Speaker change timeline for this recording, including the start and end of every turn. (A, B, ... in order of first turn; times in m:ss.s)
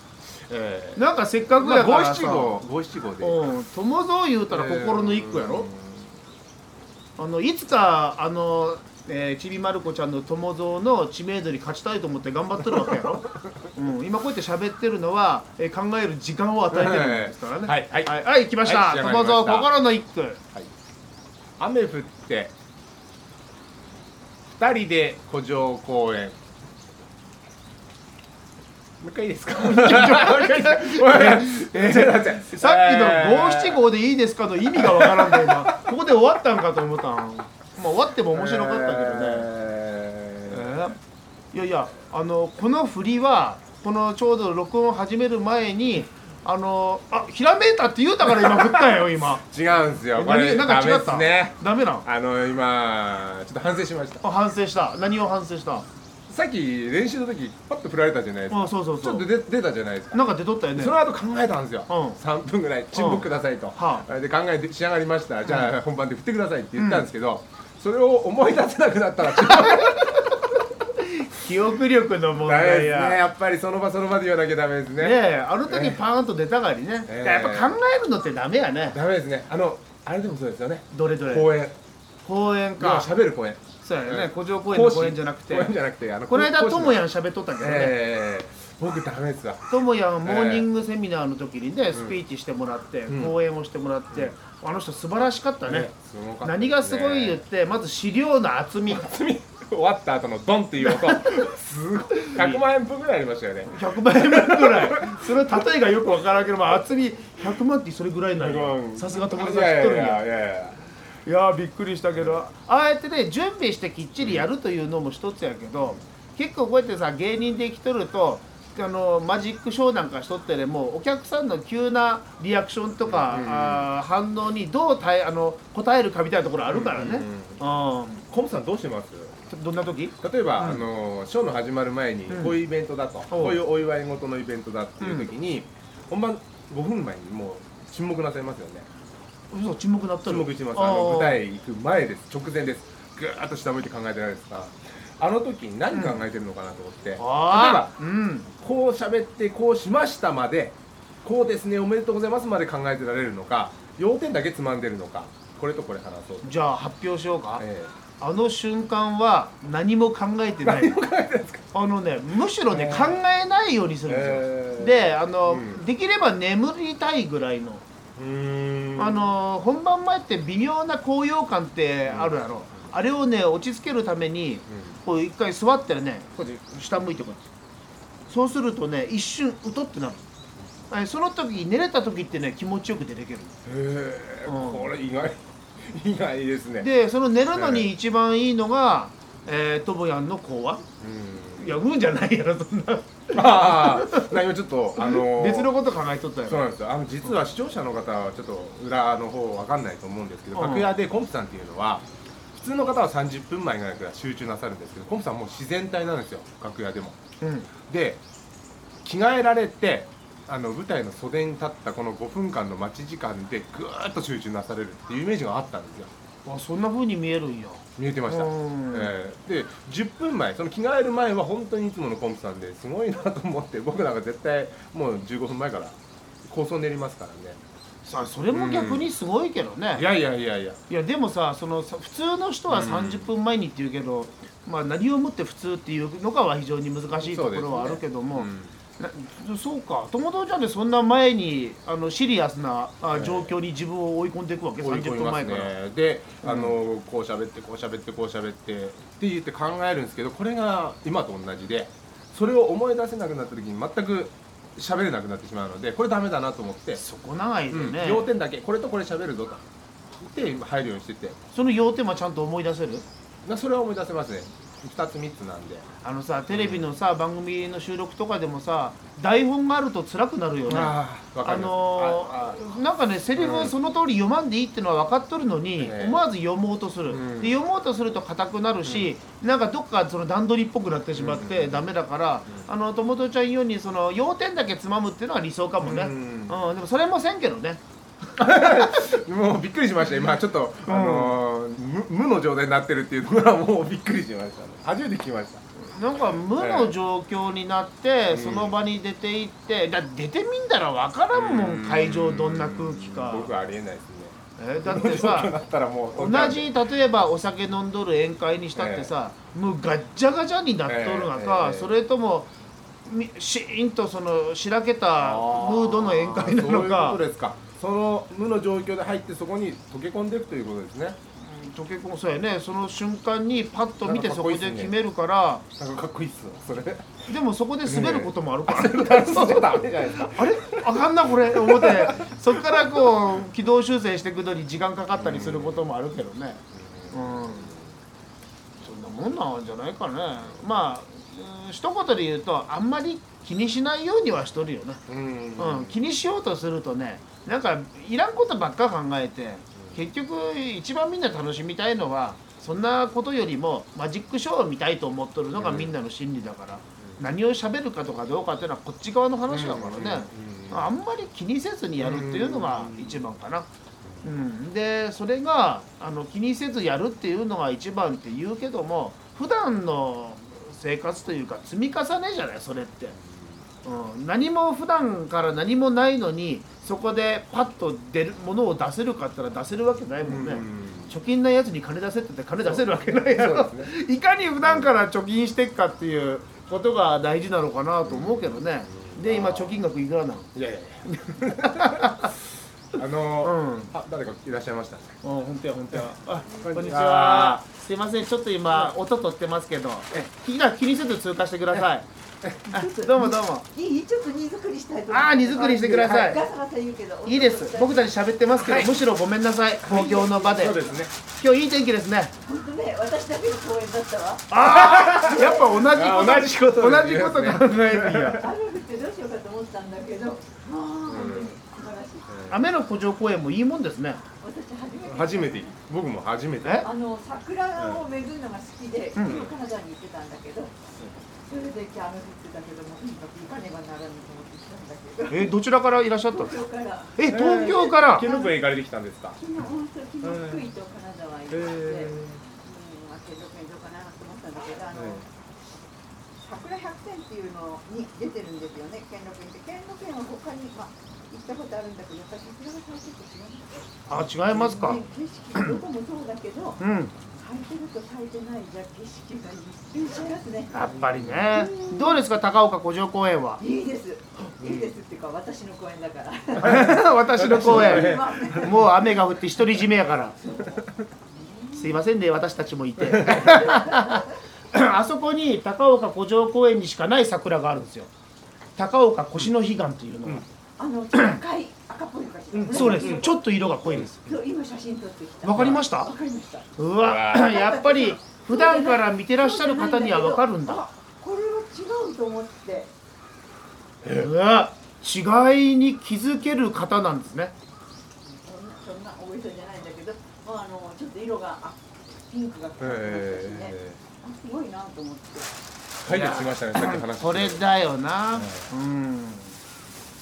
0:00.2-0:03.4 A
0:00.9-0:02.6 B
0:03.2-0:05.7 B
0:04.5-0:06.1 A
0:07.2-0:20.4 B
0:12.6-0:13.3 A
0:16.7-0:19.7 A
0:21.6-0:22.5 A
0:24.5-0:26.4 A
0:29.0-0:33.8 A
0:29.6-0:39.5 B
0:34.7-0:35.9 A
0:38.3-0:40.8 A
0:40.5-0:41.0 B
0:41.5-0:49.4 B
0:48.4-0:48.8 A
0:49.4-0:54.2 A
0:50.1-0:52.0 B
0:54.2-0:55.9 B
0:56.3-1:10.3 A
0:58.5-0:59.3 B
1:00.1-1:01.0 B
1:01.9-1:02.2 B
1:02.9-1:04.0 B
1:05.4-1:05.7 B
1:06.8-1:07.1 B
1:09.5-1:10.0 B
1:11.0-1:13.2 B
1:12.4-1:16.0 A
1:15.0-1:19.0 B
1:17.1-1:17.8 A
1:18.9-1:21.8 A
1:20.9-1:21.5 B
1:22.2-1:23.1 B
1:22.8-1:27.0 A
1:23.8-1:25.7 B
1:26.3-1:28.0 B
1:27.6-1:29.6 A
1:29.7-1:35.9 B
1:30.2-1:30.7 A
1:31.9-1:32.2 A
1:33.1-1:33.3 A
1:35.6-1:37.4 A
1:36.4-1:39.1 B
1:38.9-1:45.7 A
1:40.8-1:41.4 B
1:42.2-1:42.6 B
1:43.7-1:50.2 B
1:48.4-1:50.8 A
1:51.2-2:08.2 B
1:54.2-1:54.5 A
2:03.0-2:03.9 A
2:06.7-2:07.6 A
2:08.3-2:09.4 A
2:09.5-2:10.8 B
2:10.2-2:18.9 A
2:12.3-2:12.6 B
2:13.3-2:13.6 B
2:15.0-2:15.3 B
2:19.5-2:21.4 B
2:20.2-2:28.0 A
2:25.9-2:26.2 B
2:27.2-2:28.5 B
2:28.6-2:36.5 A
2:36.4-2:37.6 B
2:37.6-2:37.9 A
2:38.2-2:41.0 B
2:40.6-2:41.7 A
2:41.7-2:47.8 B
2:42.7-2:43.2 A
2:44.1-2:45.8 A
2:48.2-2:49.3 A
2:49.0-2:57.5 B
2:52.0-2:52.9 A
2:54.7-2:55.0 A
2:58.3-3:00.2 B
3:00.9-3:03.5 B
3:03.6-3:06.9 A
3:04.4-3:04.9 B
3:06.8-3:10.8 B
3:07.5-3:07.9 A
3:11.0-3:11.8 A
3:11.6-3:14.3 B
3:13.3-3:15.7 A
3:15.0-3:16.6 B
3:16.4-3:27.2 A
3:20.5-3:20.9 B
3:27.4-3:27.7 B
3:27.9-3:28.2 A
3:29.0-3:36.1 A
3:36.4-3:39.1 B
3:38.0-3:47.6 A
3:48.0-3:50.1 B
3:48.5-3:49.1 A
3:49.9-3:50.8 A
3:50.9-4:05.7 B
3:52.7-3:53.3 A
3:57.1-3:58.7 A
4:03.1-4:03.5 A
4:04.8-4:17.0 A
4:06.4-4:06.7 B
4:16.9-4:18.3 B
4:17.7-4:19.6 A
4:20.2-4:21.4 A
4:21.5-4:23.0 B
4:23.4-4:25.8 A
4:26.0-4:47.8 B
4:26.5-4:26.9 A
4:30.6-4:32.6 A
4:33.4-4:33.7 A
4:35.8-4:36.2 A
4:37.1-4:37.6 A
4:38.8-4:39.1 A
4:41.1-4:41.9 A
4:45.8-4:46.6 A
4:48.4-4:55.6 A
4:48.6-4:49.0 B
4:50.8-4:51.4 B
4:55.8-5:03.5 B
4:56.6-4:56.9 A
4:58.3-4:58.8 A
5:01.3-5:06.7 A
5:04.6-5:05.5 B
5:06.1-5:12.5 B
5:08.8-5:09.1 A
5:10.8-5:11.9 A
5:13.0-5:17.2 B
5:15.2-5:21.2 A
5:21.4-5:25.6 B
5:24.0-5:24.9 A
5:25.8-5:33.4 A
5:27.3-5:37.7 B
5:35.1-5:35.9 A
5:36.7-5:37.9 A
5:38.8-5:45.0 B
5:45.1-5:46.0 A
5:45.6-6:03.7 B
5:55.6-5:55.9 A
5:59.5-6:00.9 A
6:02.0-6:03.3 A
6:04.0-6:04.3 A
6:04.2-6:13.2 B
6:13.1-6:13.6 A
6:13.8-6:30.5 B
6:20.2-6:21.1 A
6:22.6-6:23.9 A
6:24.6-6:24.9 A
6:28.0-6:29.8 A
6:30.5-6:32.3 A
6:31.1-6:32.3 B
6:32.9-6:35.2 A
6:33.4-6:33.9 B
6:35.2-6:42.0 B
6:36.6-6:37.6 A
6:42.7-6:43.6 B
6:42.7-6:48.1 C
6:45.1-6:46.4 B
6:47.2-6:50.8 B
6:48.5-6:49.1 A
6:49.8-6:51.1 A
6:51.3-6:52.3 B
6:52.4-6:54.7 C
6:54.5-6:58.4 B
6:54.6-6:58.5 A
6:58.4-7:02.4 C
7:01.0-7:01.6 A
7:02.3-7:02.6 A
7:02.5-7:04.2 B
7:04.4-7:05.8 C
7:05.0-7:06.9 A
7:06.6-7:06.9 B
7:06.8-7:10.8 C
7:07.8-7:08.0 A
7:09.2-7:09.5 B
7:09.2-7:09.5 A
7:11.4-7:15.6 C
7:15.3-7:16.6 B
7:16.2-7:18.6 C
7:17.2-7:18.3 B
7:17.3-7:19.4 A
7:19.4-7:25.3 C
7:20.2-7:20.7 A
7:21.5-7:22.4 A
7:24.9-7:25.2 A
7:26.4-7:33.8 C
7:34.1-7:35.0 B
7:34.3-7:36.8 C
7:36.8-7:37.1 B
7:37.3-7:41.0 C
7:40.7-7:43.6 B
7:41.1-7:41.6 A
7:41.5-7:42.2 C
7:43.6-7:48.9 C
7:44.6-7:44.8 A
7:46.6-7:48.9 A
7:46.6-7:50.4 B
7:50.4-7:52.0 C
7:51.7-7:58.1 B
7:53.0-7:53.6 A
7:53.2-7:54.3 C
7:58.8-8:00.4 B
8:00.8-8:06.7 C
8:01.1-8:01.4 B
8:02.5-8:03.3 A
8:02.7-8:04.2 B
8:03.9-8:04.3 A
8:05.4-8:06.1 B
8:05.5-8:05.8 A
8:06.8-8:10.8 B
8:07.0-8:07.5 A
8:07.3-8:12.9 C
8:14.0-8:14.3 A
8:14.1-8:17.5 B
8:18.2-8:25.5 C
8:22.8-8:24.0 A
8:26.0-8:27.6 A
8:26.0-8:29.6 B
8:28.3-8:28.7 A